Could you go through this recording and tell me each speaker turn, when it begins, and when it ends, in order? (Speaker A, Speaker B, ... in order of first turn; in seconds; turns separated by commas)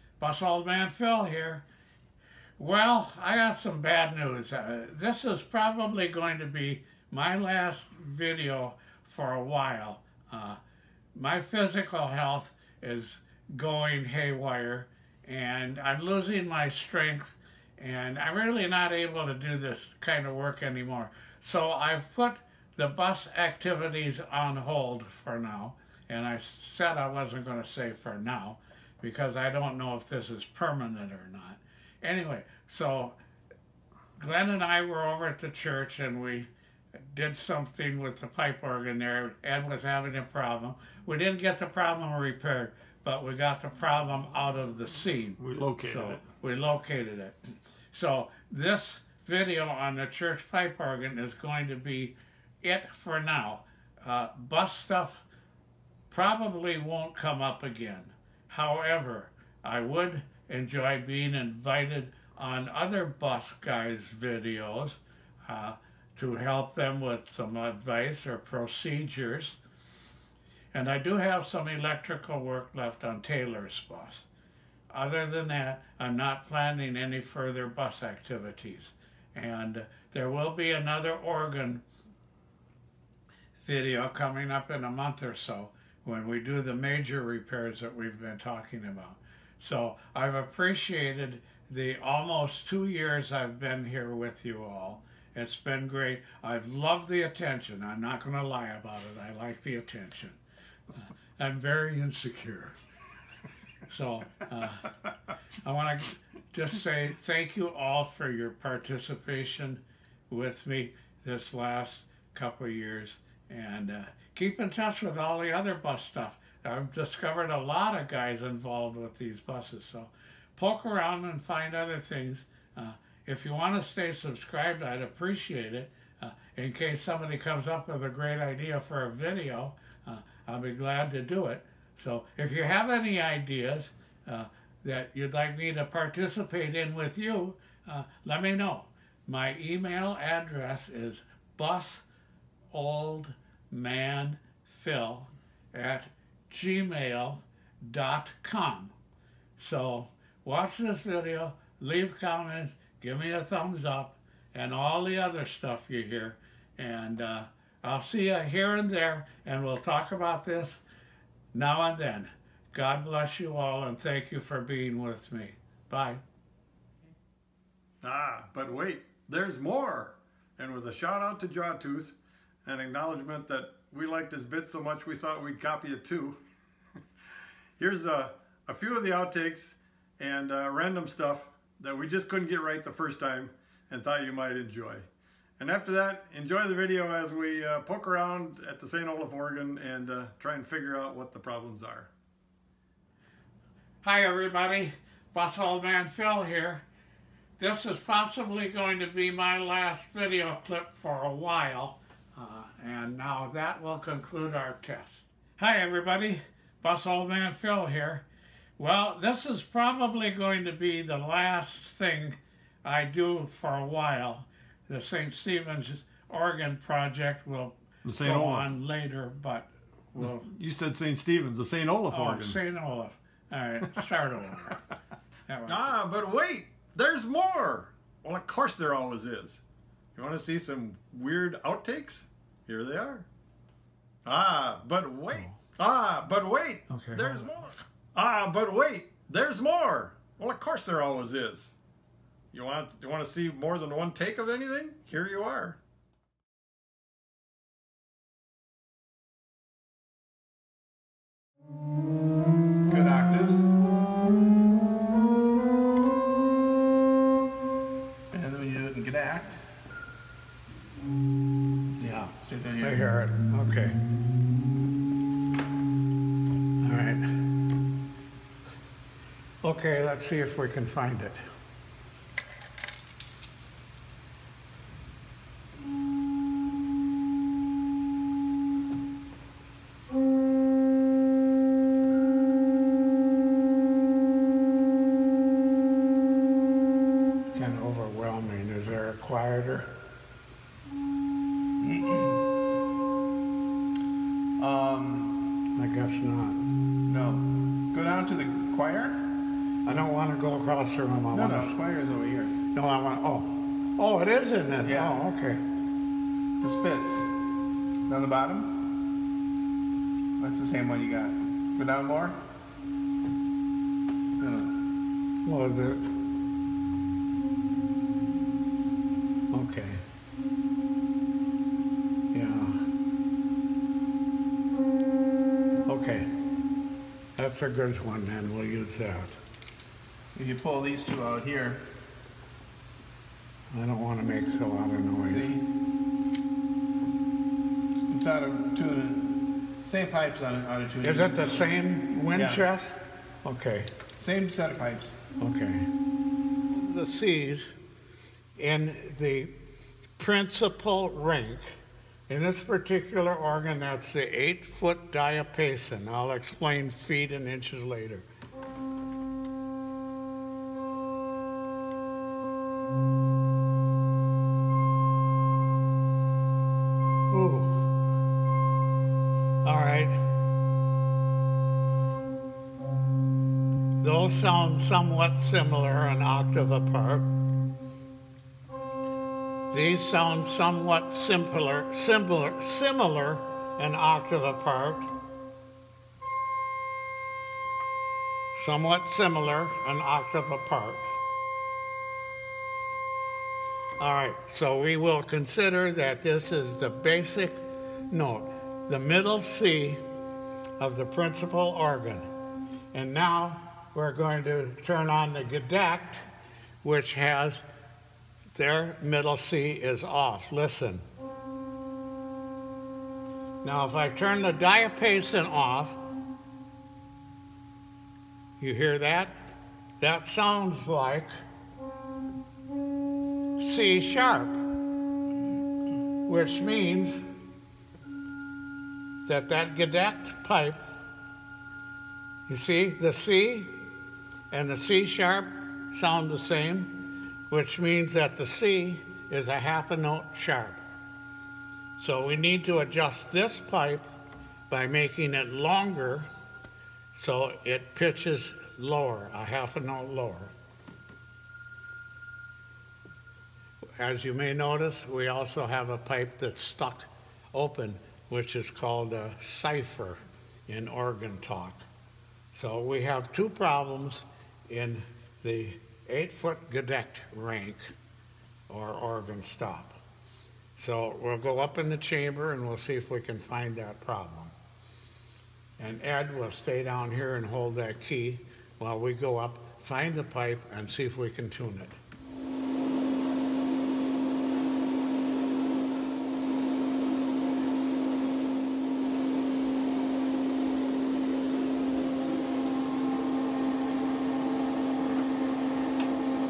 Speaker A: 0.2-1.6, Speaker A: 2.6-10.6, Speaker A: 11.1-33.1, Speaker A: 34.2-36.5, Speaker A: 37.0-47.4, Speaker B: 45.4-46.2, Speaker A: 47.9-55.2, Speaker A: 56.1-69.6, Speaker A: 70.7-74.2, Speaker A: 74.9-81.8, Speaker A: 83.5-100.4, Speaker A: 100.9-102.8, Speaker A: 103.9-104.9, Speaker A: 105.6-142.0, Speaker A: 142.7-148.9, Speaker A: 149.6-160.8, Speaker A: 161.5-166.2, Speaker B: 168.0-172.1, Speaker B: 172.6-176.4, Speaker B: 177.8-185.1, Speaker B: 185.6-192.1, Speaker A: 194.0-196.8, Speaker A: 197.6-208.2, Speaker A: 208.8-220.5, Speaker B: 218.0-218.7, Speaker B: 220.2-222.6, Speaker A: 222.1-224.8, Speaker A: 225.5-226.0, Speaker B: 225.7-229.6, Speaker B: 230.2-233.3, Speaker B: 234.2-241.7, Speaker A: 236.9-237.5, Speaker B: 242.5-245.8, Speaker C: 252.9-253.7, Speaker C: 258.3-259.6, Speaker A: 262.0-264.0, Speaker C: 262.4-263.0, Speaker A: 266.8-267.3, Speaker A: 269.6-271.4, Speaker A: 287.5-289.9, Speaker C: 291.8-292.4, Speaker C: 294.6-295.4, Speaker A: 295.8-296.6, Speaker C: 297.1-299.2, Speaker A: 299.8-301.7, Speaker C: 301.3-302.5, Speaker A: 302.7-305.6, Speaker C: 304.8-305.1, Speaker C: 306.6-307.3, Speaker C: 308.1-308.7, Speaker C: 310.4-312.4, Speaker C: 314.4-314.7, Speaker A: 315.4-316.1, Speaker A: 319.5-320.0, Speaker A: 322.3-322.8, Speaker A: 325.9-326.3, Speaker A: 327.4-329.3, Speaker C: 330.3-331.8, Speaker A: 333.7-335.5, Speaker C: 335.2-335.6, Speaker C: 338.1-341.7, Speaker A: 341.0-342.9, Speaker C: 342.3-342.6, Speaker A: 343.4-343.9, Speaker C: 344.2-345.2, Speaker A: 345.4-345.9, Speaker A: 346.7-347.7, Speaker A: 348.6-349.5, Speaker A: 350.2-351.7, Speaker A: 352.3-358.2, Speaker A: 367.3-367.9, Speaker A: 369.6-370.2, Speaker A: 374.0-377.3, Speaker A: 379.7-385.1, Speaker A: 388.5-391.0, Speaker A: 394.0-400.0, Speaker A: 400.8-402.3, Speaker A: 402.9-406.2, Speaker A: 406.8-407.6, Speaker A: 408.5-411.0, Speaker A: 413.6-416.0, Speaker A: 418.6-421.3, Speaker A: 423.6-424.6, Speaker A: 426.2-427.2, Speaker A: 429.2-430.8, Speaker A: 432.5-433.9, Speaker A: 434.5-437.0, Speaker A: 437.5-440.8, Speaker A: 442.0-444.0, Speaker A: 444.7-446.2, Speaker A: 447.1-450.5, Speaker A: 454.0-461.8, Speaker A: 462.5-467.9, Speaker A: 468.7-470.0, Speaker A: 470.8-474.5, Speaker A: 475.8-482.0